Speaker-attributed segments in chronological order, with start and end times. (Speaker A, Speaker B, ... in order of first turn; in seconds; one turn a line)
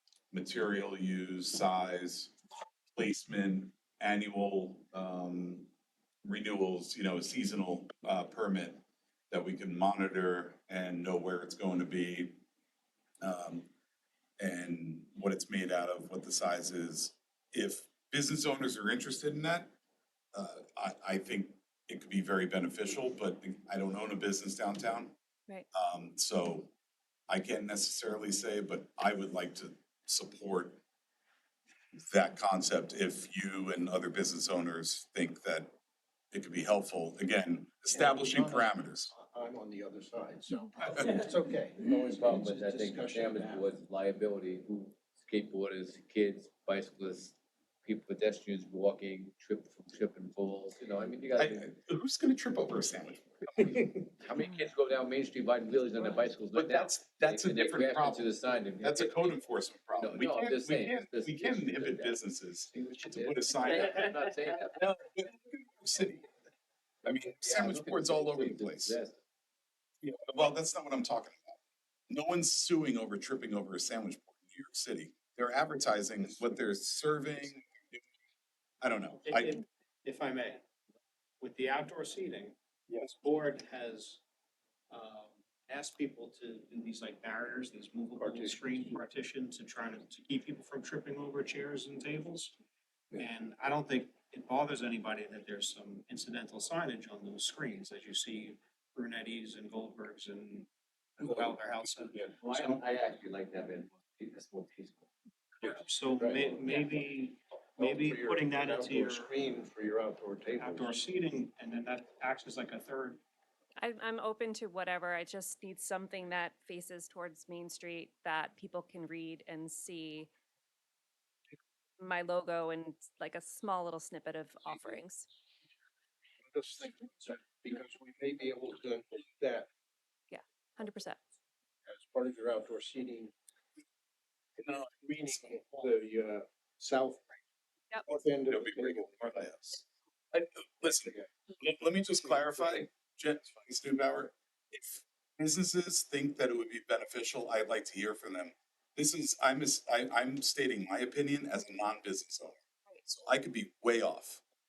Speaker A: 0.3-2.4
Speaker A: 2.9-5.7
Speaker A: 6.2-12.4
Speaker A: 13.2-13.7
Speaker A: 14.4-19.7
Speaker A: 20.3-25.2
Speaker A: 25.7-26.7
Speaker A: 27.3-30.8
Speaker A: 32.0-35.7
Speaker A: 36.3-39.1
Speaker B: 37.9-43.8
Speaker A: 40.8-41.1
Speaker C: 41.8-51.7
Speaker A: 51.4-54.1
Speaker C: 54.2-59.3
Speaker A: 56.5-66.3
Speaker C: 60.0-62.2
Speaker C: 62.7-64.8
Speaker A: 67.0-69.0
Speaker C: 67.4-69.2
Speaker A: 70.0-78.0
Speaker C: 76.3-76.5
Speaker A: 78.8-79.6
Speaker D: 79.2-80.7
Speaker D: 81.4-84.2
Speaker D: 84.9-92.6
Speaker B: 88.2-89.0
Speaker D: 93.2-102.8
Speaker C: 102.1-107.0
Speaker D: 105.6-109.3
Speaker B: 107.8-111.0
Speaker D: 110.5-113.2
Speaker E: 113.8-120.3
Speaker E: 122.0-125.3
Speaker B: 126.4-129.7
Speaker E: 130.3-131.2
Speaker B: 131.8-133.3
Speaker A: 134.6-134.9
Speaker B: 134.7-137.4
Speaker B: 138.0-139.7
Speaker A: 138.1-154.4
Speaker B: 140.8-141.3
Speaker B: 142.3-142.8